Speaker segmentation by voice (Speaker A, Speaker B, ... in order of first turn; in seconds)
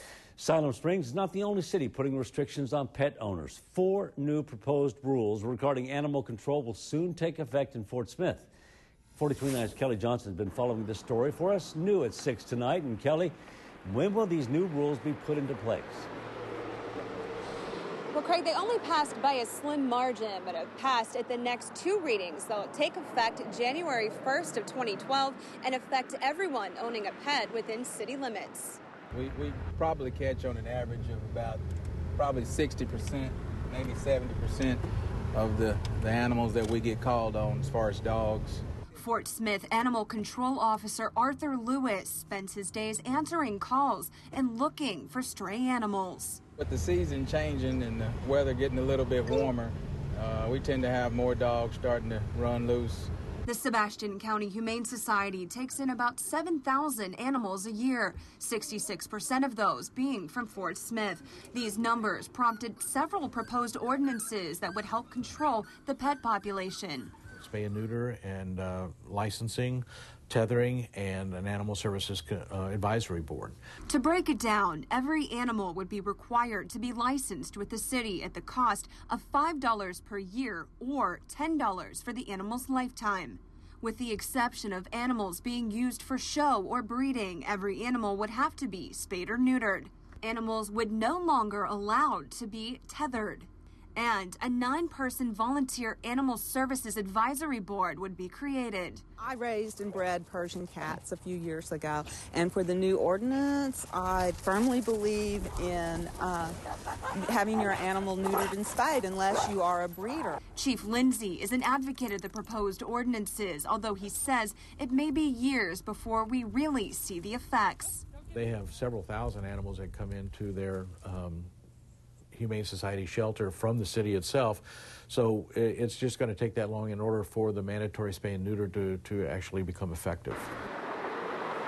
Speaker A: 0.4-8.5, 9.2-13.3, 13.8-16.1
Speaker B: 18.1-28.8, 38.9-46.4, 53.4-67.1, 73.9-99.0, 110.5-118.0
Speaker C: 29.1-31.6, 32.1-34.8, 35.3-38.6, 46.6-53.1
Speaker D: 67.3-73.6, 118.3-121.5, 122.3-130.5
Speaker E: 99.2-106.6, 107.1-110.4